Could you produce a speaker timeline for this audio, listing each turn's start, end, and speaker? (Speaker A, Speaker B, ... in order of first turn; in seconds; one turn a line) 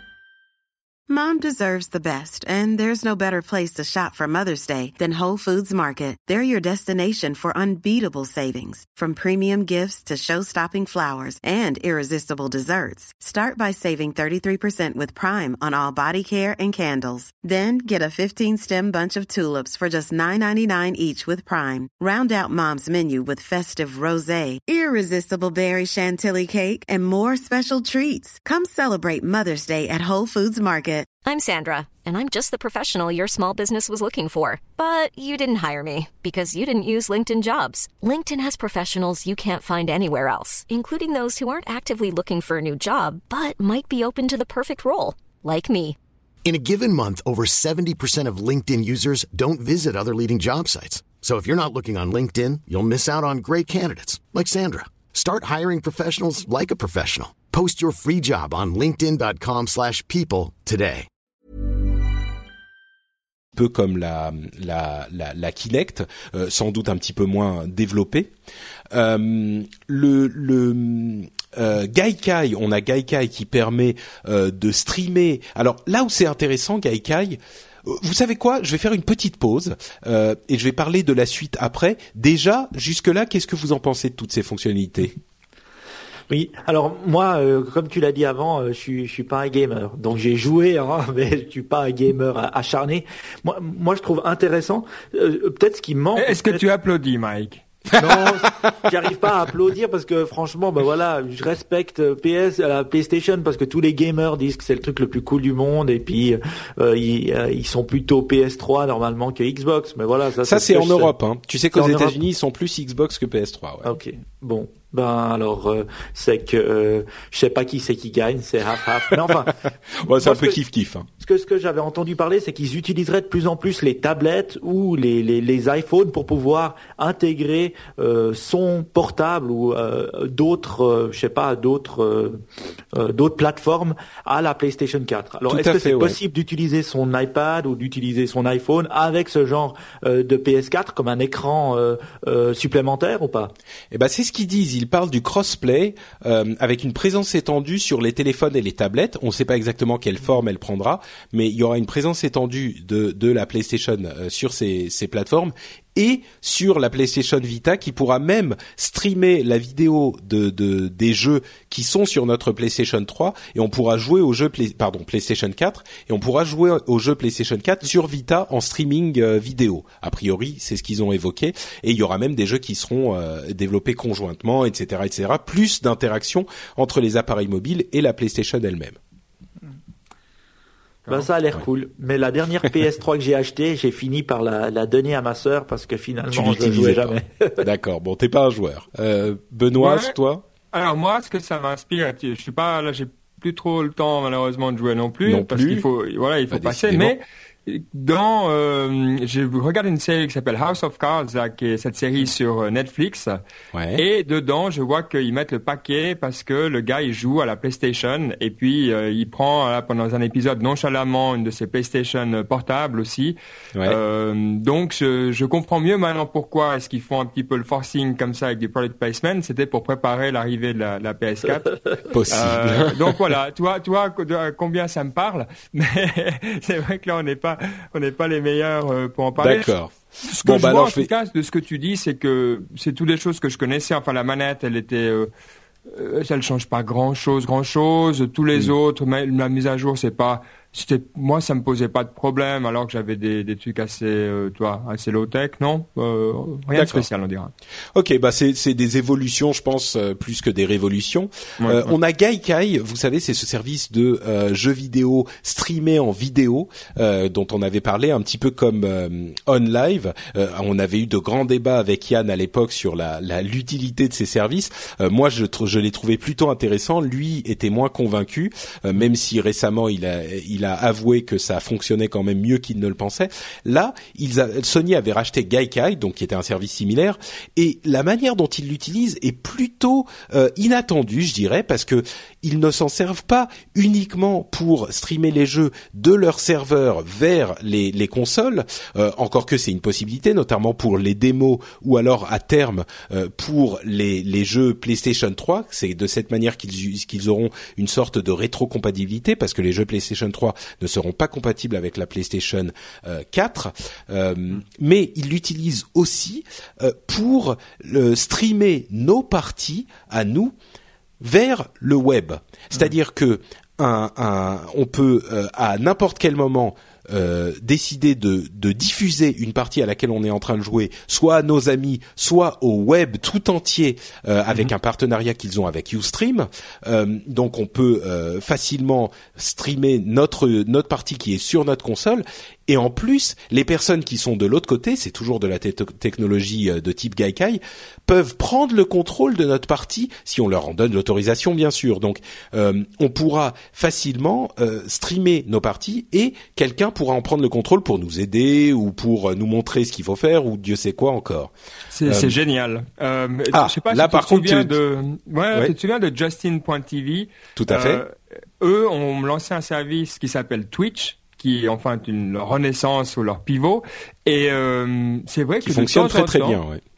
Speaker A: 1.1-31.1
Speaker B: 31.2-46.0
Speaker C: 46.4-61.1
Speaker D: 63.5-68.3
Speaker D: 68.9-85.2
Speaker E: 86.3-96.6
Speaker F: 96.2-97.6
Speaker E: 97.9-111.1
Speaker D: 110.4-113.9
Speaker E: 111.7-112.2
Speaker E: 113.8-119.5
Speaker D: 120.0-121.0
Speaker E: 120.2-120.6
Speaker E: 121.2-143.5
Speaker D: 135.5-136.2
Speaker D: 143.9-179.0
Speaker E: 181.1-187.6
Speaker D: 186.3-190.4
Speaker F: 189.8-190.1
Speaker F: 190.7-203.4
Speaker D: 195.2-195.8
Speaker D: 196.5-197.1
Speaker D: 203.7-204.0
Speaker F: 203.9-235.3
Speaker D: 222.1-223.1
Speaker D: 229.4-231.1
Speaker F: 235.9-247.5
Speaker D: 246.7-247.1
Speaker D: 247.9-310.5
Speaker F: 251.6-251.9
Speaker D: 311.2-351.5
Speaker F: 351.9-366.6
Speaker D: 352.1-352.3
Speaker D: 353.5-354.7
Speaker D: 357.6-358.0
Speaker D: 365.6-366.8